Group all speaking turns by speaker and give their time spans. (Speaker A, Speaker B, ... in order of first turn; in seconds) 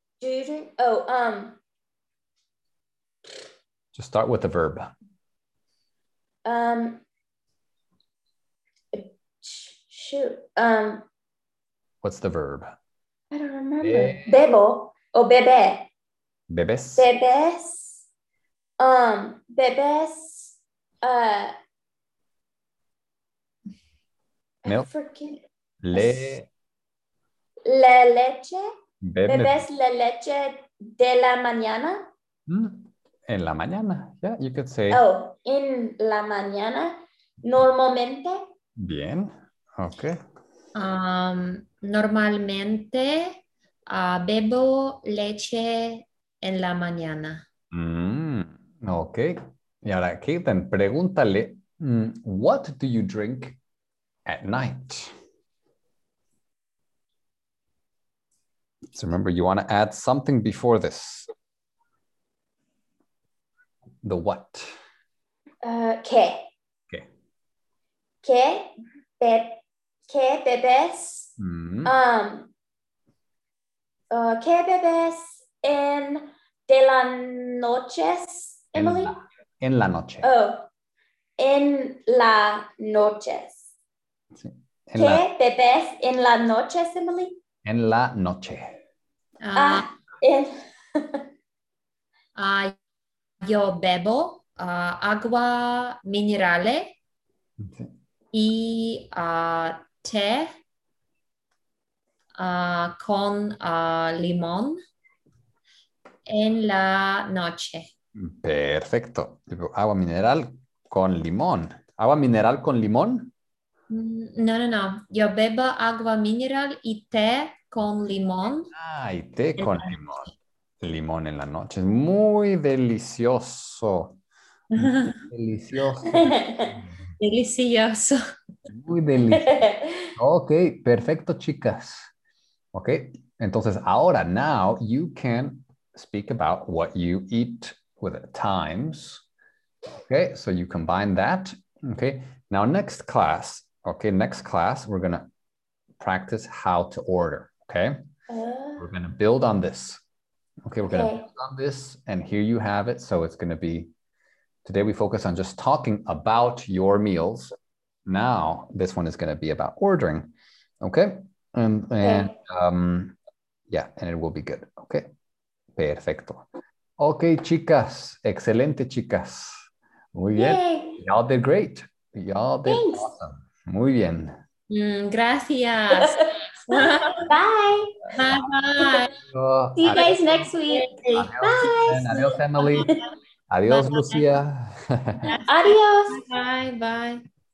Speaker A: 0.2-1.6, 6.5-7.0, 8.9-11.1, 13.3-15.9, 17.0-18.1, 18.8-21.6, 24.6-25.4, 25.9-26.4, 27.6-28.7, 29.3-32.1, 34.9-38.4, 65.6-66.5, 68.2-71.3, 71.8-72.5, 74.1-79.2, 80.2-80.7, 81.4-83.7, 85.0-87.4, 89.5-91.2, 126.1-126.7, 129.3-130.1, 148.3-148.9, 150.8-151.3, 162.0-162.3, 170.3-171.0, 172.7-173.1, 175.9-178.2, 179.8-183.0, 185.4-186.2
Speaker B: 4.0-4.9, 12.0-12.7, 13.8-14.4, 16.5-17.1, 25.8-26.5, 29.0-29.6, 32.5-35.0, 38.8-40.2, 47.7-53.6, 54.3-55.1, 58.9-61.3, 64.0-64.7, 71.4-71.9, 78.8-80.3, 84.4-85.2, 87.7-88.8, 97.6-97.9, 108.2-113.3, 118.7-124.2, 124.8-126.9, 128.7-132.1, 132.7-139.2, 139.9-145.3, 146.0-148.0, 148.8-150.0, 150.7-153.9, 154.6-157.5, 158.1-163.2, 163.7-165.1, 165.8-166.5, 167.0-174.4, 179.2-180.3, 181.1-182.9, 183.5-185.3
Speaker C: 40.8-43.4, 43.9-47.5, 89.4-89.9, 92.4-92.8, 93.4-96.9, 98.3-100.5, 102.4-104.8, 106.3-107.9, 113.9-118.7, 119.6-119.9, 124.8-125.2, 127.2-128.2, 174.7-177.3, 178.1-179.1, 180.7-181.7, 183.7-184.3, 185.3-187.2